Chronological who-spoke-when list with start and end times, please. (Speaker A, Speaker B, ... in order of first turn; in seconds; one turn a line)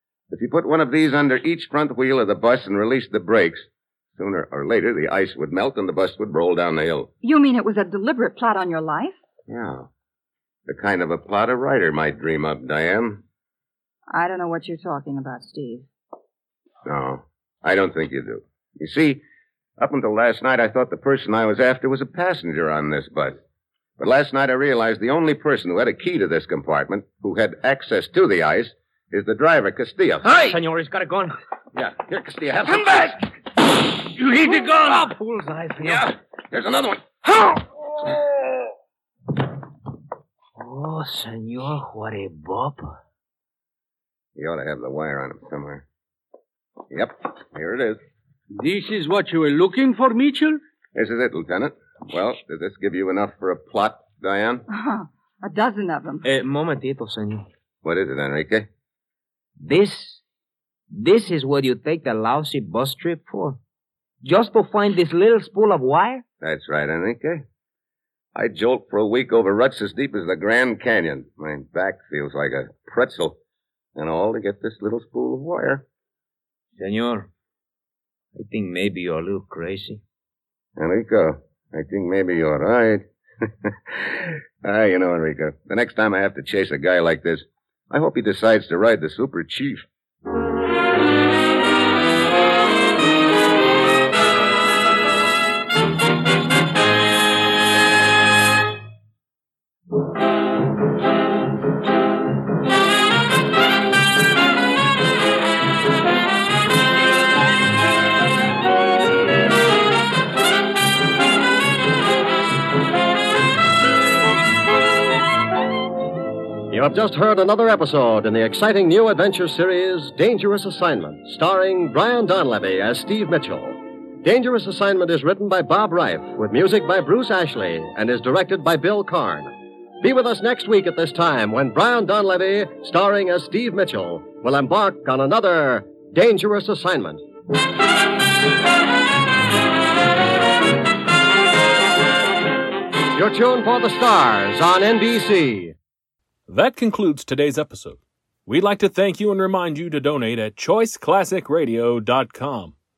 Speaker A: 0.3-7.1
Speaker B: 7.2-9.2
Speaker A: 9.5-9.9
Speaker A: 10.7-13.2
Speaker B: 14.1-15.9
Speaker A: 16.9-19.2
Speaker A: 19.8-23.4
Speaker A: 24.0-30.3
Speaker C: 30.3-31.3
Speaker A: 31.8-33.2
Speaker C: 34.1-36.1
Speaker A: 35.8-37.1
Speaker C: 40.6-43.0
Speaker A: 44.4-45.9
Speaker A: 46.9-48.0
Speaker D: 48.6-50.6
Speaker A: 51.0-54.6
Speaker B: 54.7-56.3
Speaker C: 56.2-57.5
Speaker A: 57.8-58.7
Speaker C: 59.6-60.2
Speaker C: 60.9-63.6
Speaker C: 64.2-66.2
Speaker A: 66.4-67.5
Speaker A: 68.3-73.4
Speaker A: 74.0-75.8
Speaker C: 76.8-77.3
Speaker C: 78.4-80.0
Speaker A: 80.8-89.9
Speaker E: 116.7-137.2
Speaker E: 143.1-145.8
Speaker F: 146.5-152.7